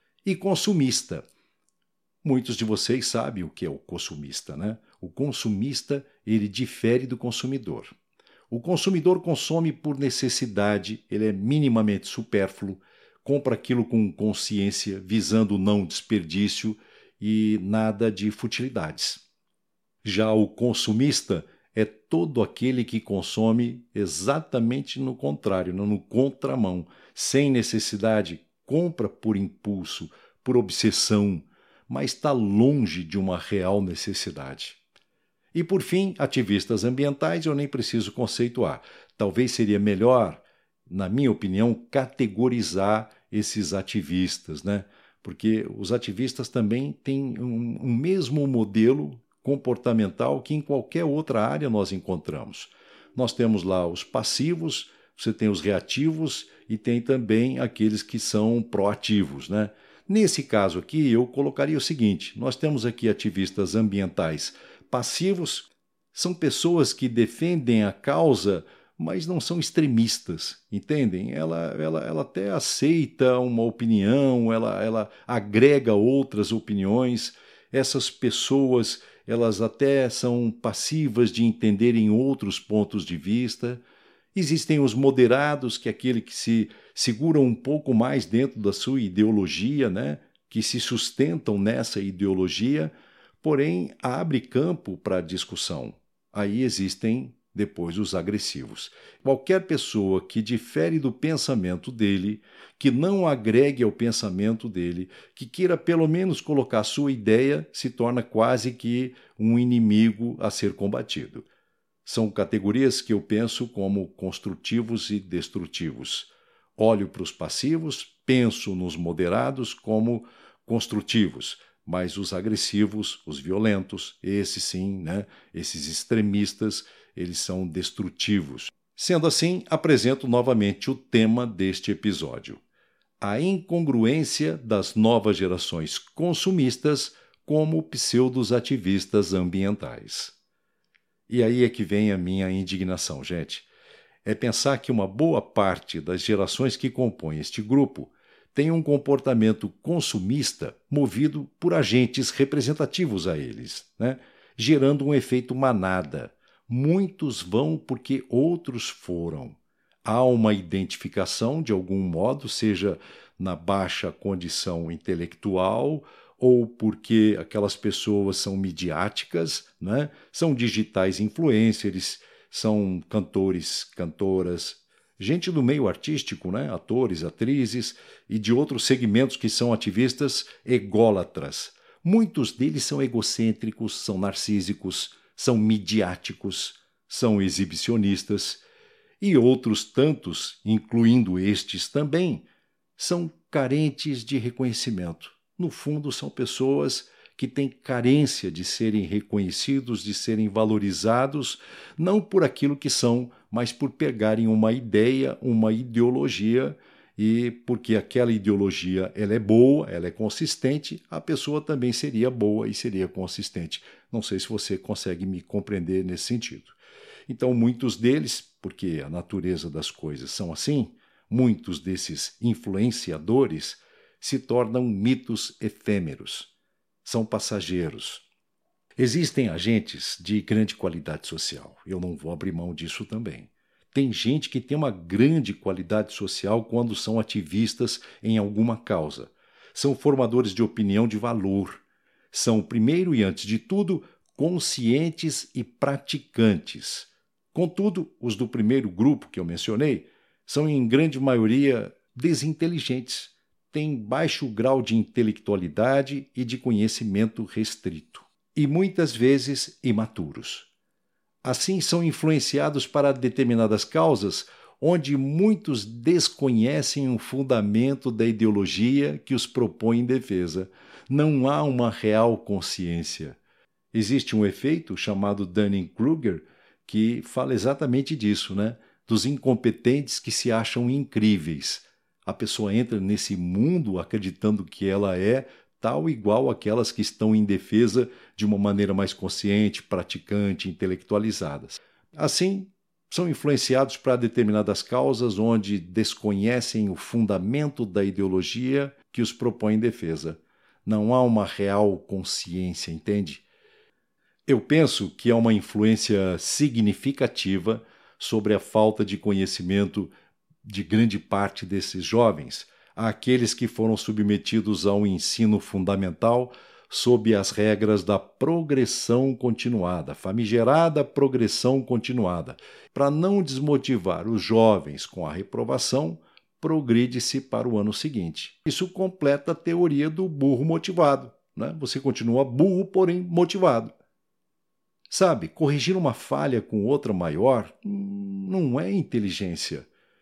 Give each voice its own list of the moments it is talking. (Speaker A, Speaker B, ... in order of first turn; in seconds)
Speaker A: 0.2-1.2, 2.2-7.9, 8.5-19.2, 20.0-34.8, 35.5-83.8, 84.3-111.5, 112.0-132.6, 133.2-140.3, 141.3-143.7, 144.2-188.6, 189.2-192.4, 193.0-226.5, 227.0-228.2, 229.0-260.7, 261.4-273.4, 273.9-303.4, 304.5-310.1, 310.6-333.9, 335.1-339.9